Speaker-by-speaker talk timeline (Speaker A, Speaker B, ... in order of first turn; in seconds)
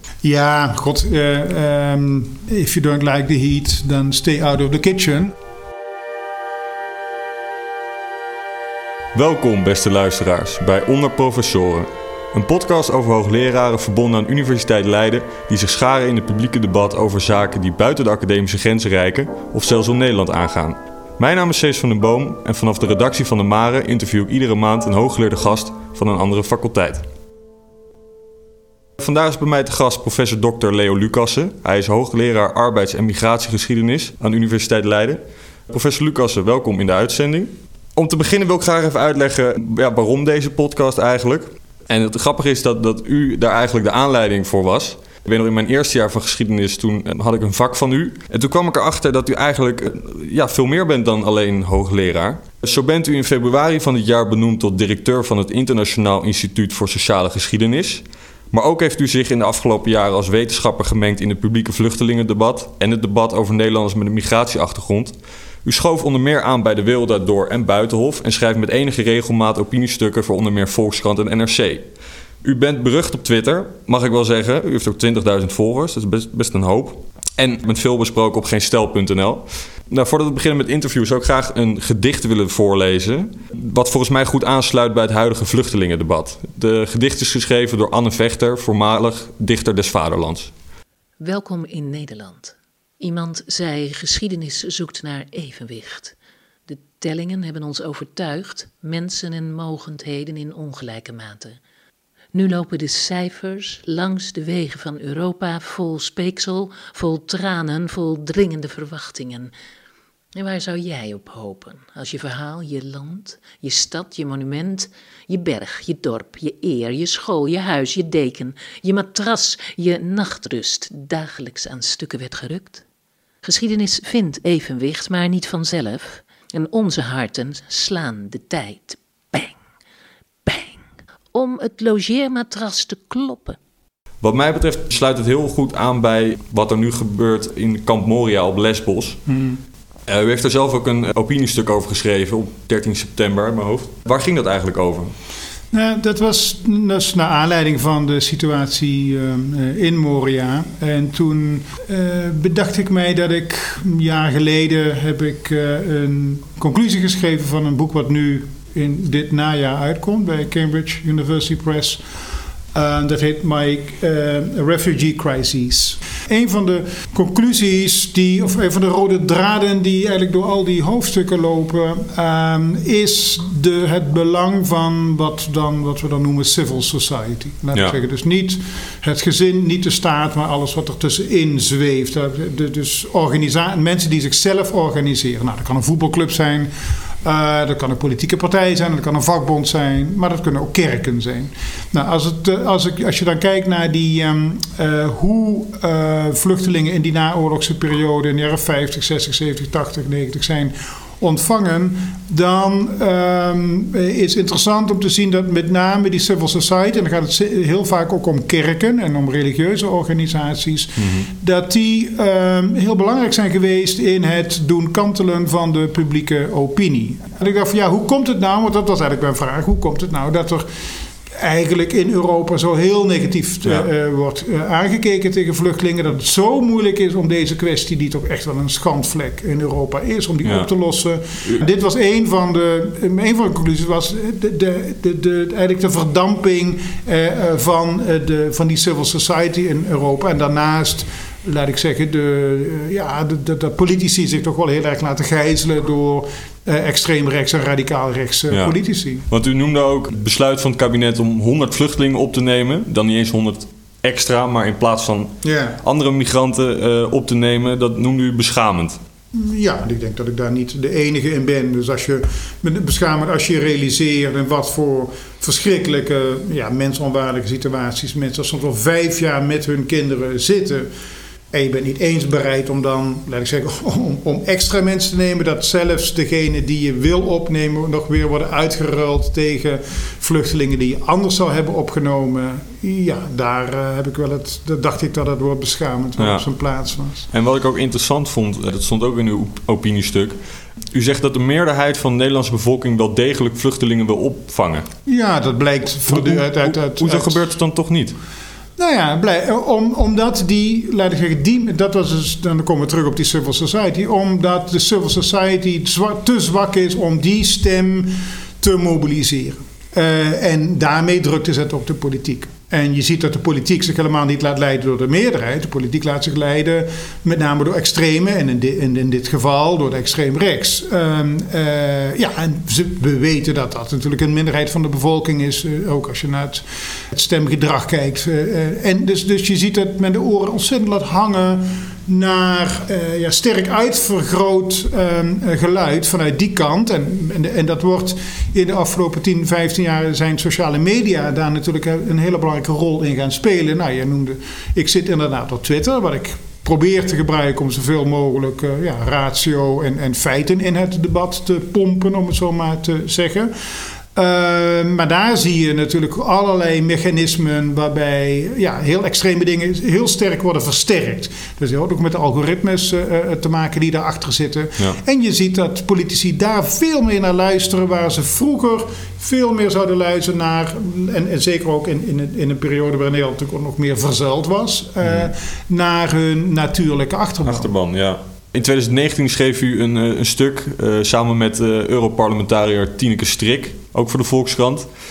Speaker A: 0.2-5.3, 139.3-139.6, 145.7-162.0, 162.7-186.7, 187.2-220.7, 221.3-249.2, 255.4-255.8, 259.3-270.9, 271.5-287.3, 295.1-297.5, 298.8-353.5, 354.1-377.7
Speaker B: 9.2-27.1, 29.0-65.1, 65.7-71.9, 72.4-90.5, 134.2-139.2, 140.1-145.1, 211.0-211.3, 249.3-259.0, 286.2-286.5, 287.3-290.4, 290.9-294.9, 296.1-298.2, 375.0-375.3, 377.4-384.9
Speaker C: 91.2-96.2, 96.7-101.6, 102.3-109.5, 110.4-122.8, 123.4-129.6, 130.5-130.8, 131.3-133.6